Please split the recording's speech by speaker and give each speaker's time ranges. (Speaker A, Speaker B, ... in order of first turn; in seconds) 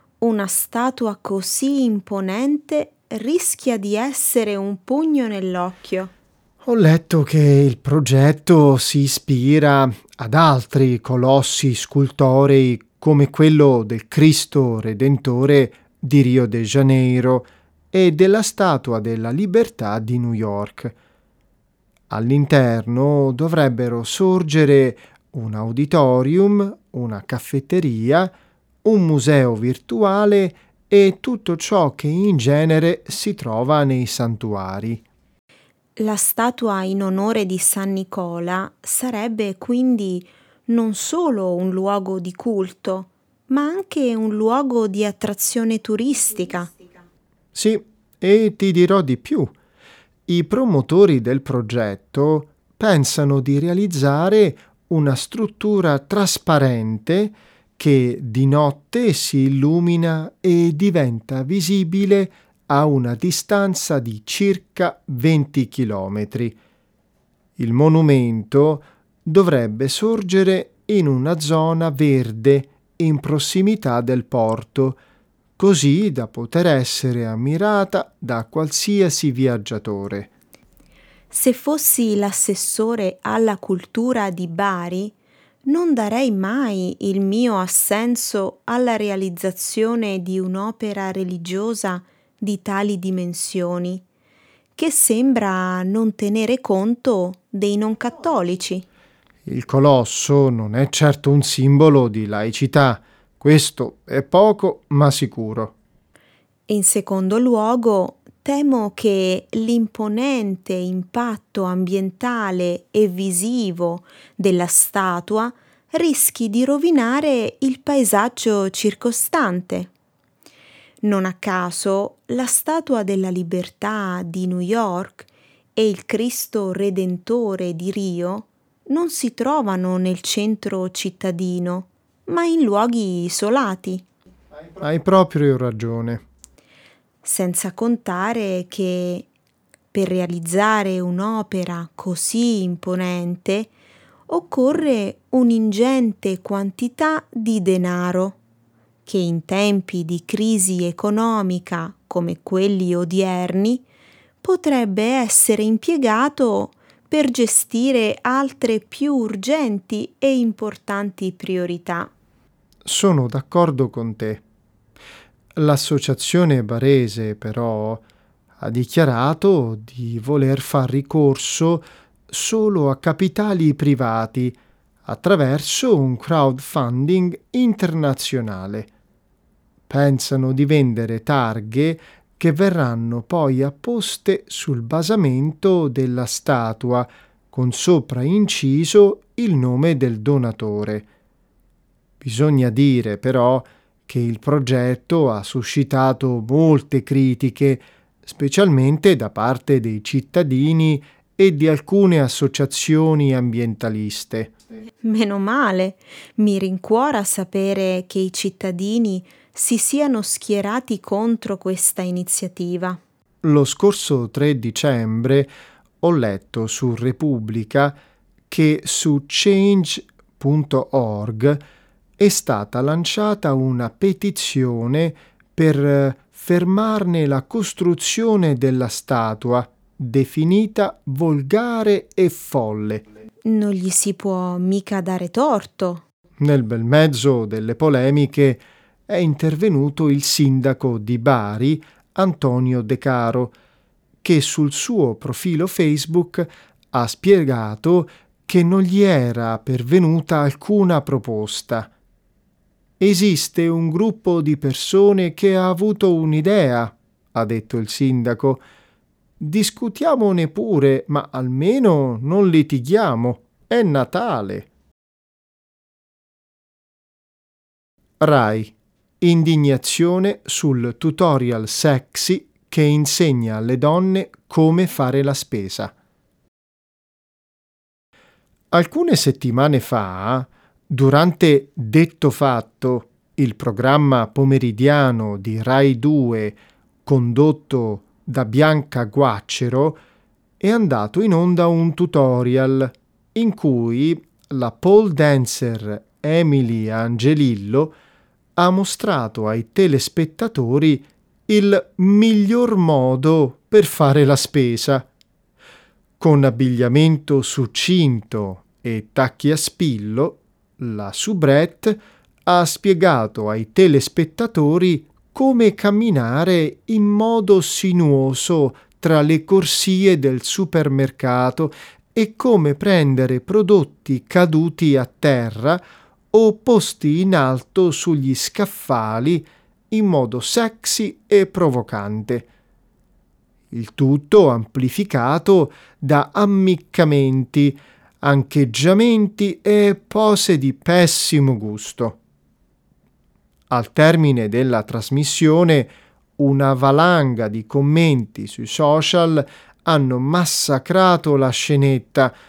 Speaker A: 0.2-6.1, 36.0-46.7, 81.3-85.1, 85.7-94.0, 94.8-98.8, 106.7-119.9, 121.0-134.0, 137.2-139.3, 139.9-143.7, 144.3-148.4, 149.0-153.8, 154.4-162.1, 205.0-213.0, 233.4-236.0
Speaker B: 6.6-20.9, 22.1-28.3, 28.8-35.0, 47.5-49.5, 50.3-66.5, 67.6-75.0, 75.6-80.3, 99.5-105.7, 134.7-136.2, 162.8-164.4, 165.6-168.0, 168.6-178.9, 179.9-191.1, 192.2-204.5, 213.4-215.5, 216.0-217.9, 218.5-221.6, 222.2-233.0, 236.4-243.5, 244.2-251.9, 253.0-258.6, 259.4-264.7, 268.2-275.9, 278.7-290.0, 290.6-297.9, 298.6-305.1, 306.2-325.8, 326.3-332.5, 333.7-342.2, 343.7-352.3